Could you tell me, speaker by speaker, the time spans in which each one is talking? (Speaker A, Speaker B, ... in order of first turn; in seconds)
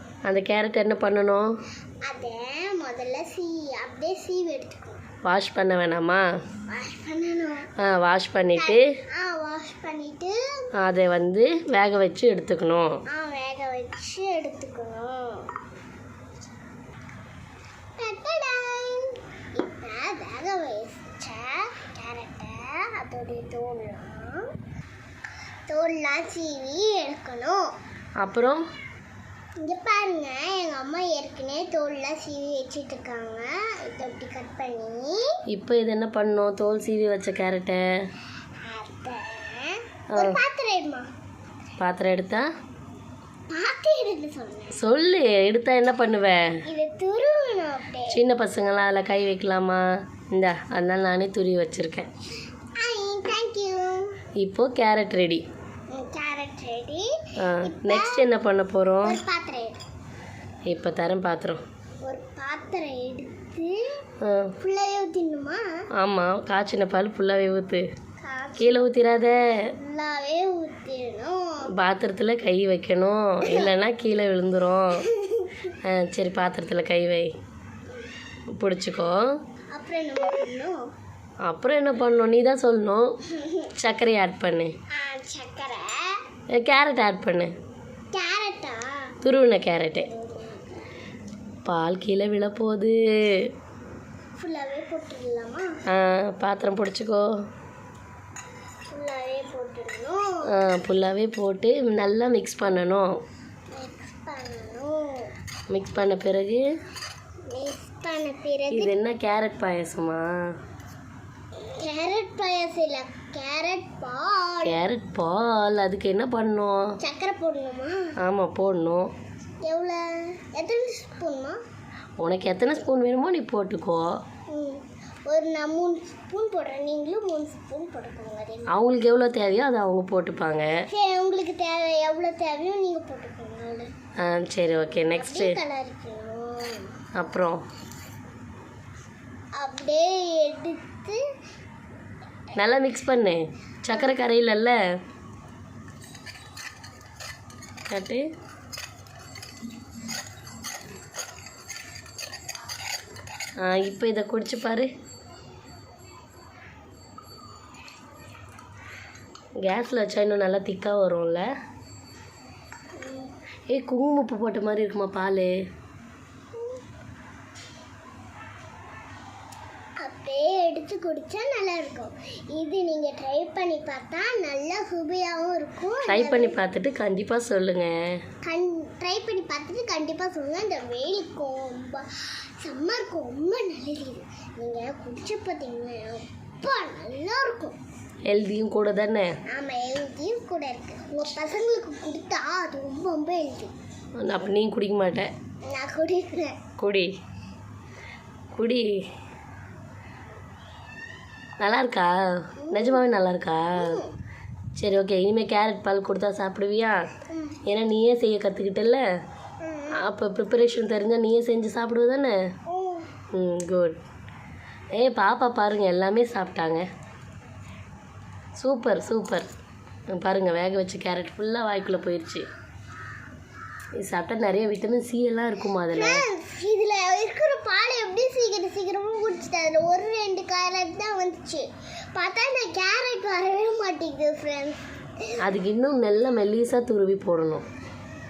Speaker A: 0.2-1.5, 5.2-6.2, 7.8-8.9, 10.8-13.0, 28.2-28.6, 35.5-37.9, 40.1-40.4, 41.8-42.5, 44.8-46.6, 48.1-52.1, 54.4-55.4, 57.4-59.2, 60.7-61.6, 64.2-64.5, 66.0-67.8, 68.6-69.6, 71.8-75.0, 75.8-77.3, 78.5-79.2, 81.5-83.2, 83.8-84.8, 86.5-87.5, 89.2-90.1, 91.7-93.5, 95.9-97.3, 100.5-103.1, 105.7-106.6, 108.7-110.3, 114.6-117.0, 118.2-119.1, 122.2-124.2, 128.7-130.8, 134.2-135.6, 137.2-137.6, 142.6-144.8, 147.9-148.3, 153.6-154.9, 159.6-161.5, 163.7-165.5, 176.1-177.9, 188.3-189.3, 194.2-195.3, 196.8-197.1, 198.5-199.0, 201.6-204.0, 204.8-207.0, 207.7-209.1, 209.9-212.4, 213.3-214.0, 215.0-216.9, 218.6-219.5, 220.1-222.5, 224.0-226.2, 235.4-237.7
Speaker B: 2.0-5.0, 6.7-7.7, 8.6-10.7, 13.1-15.5, 18.0-24.5, 25.7-27.7, 29.6-35.4, 38.6-41.1, 43.5-44.8, 46.6-48.2, 52.8-54.1, 55.9-58.3, 59.0-59.8, 62.0-63.9, 64.6-65.7, 68.2-68.9, 69.7-71.7, 73.4-73.7, 75.0-75.8, 79.7-80.8, 83.3-83.7, 84.9-86.2, 88.1-89.1, 90.0-90.8, 94.4-95.7, 98.9-100.5, 103.7-105.3, 107.5-108.9, 111.6-114.8, 117.0-118.2, 119.7-121.6, 124.5-128.8, 130.9-133.9, 135.2-137.0, 139.6-141.2, 163.0-163.3, 170.0-176.6, 178.4-182.1, 182.6-187.8, 189.5-193.7, 195.7-196.6, 202.6-203.0, 203.7-204.1, 207.3-207.6, 209.6-210.1, 212.7-213.1, 225.9-235.4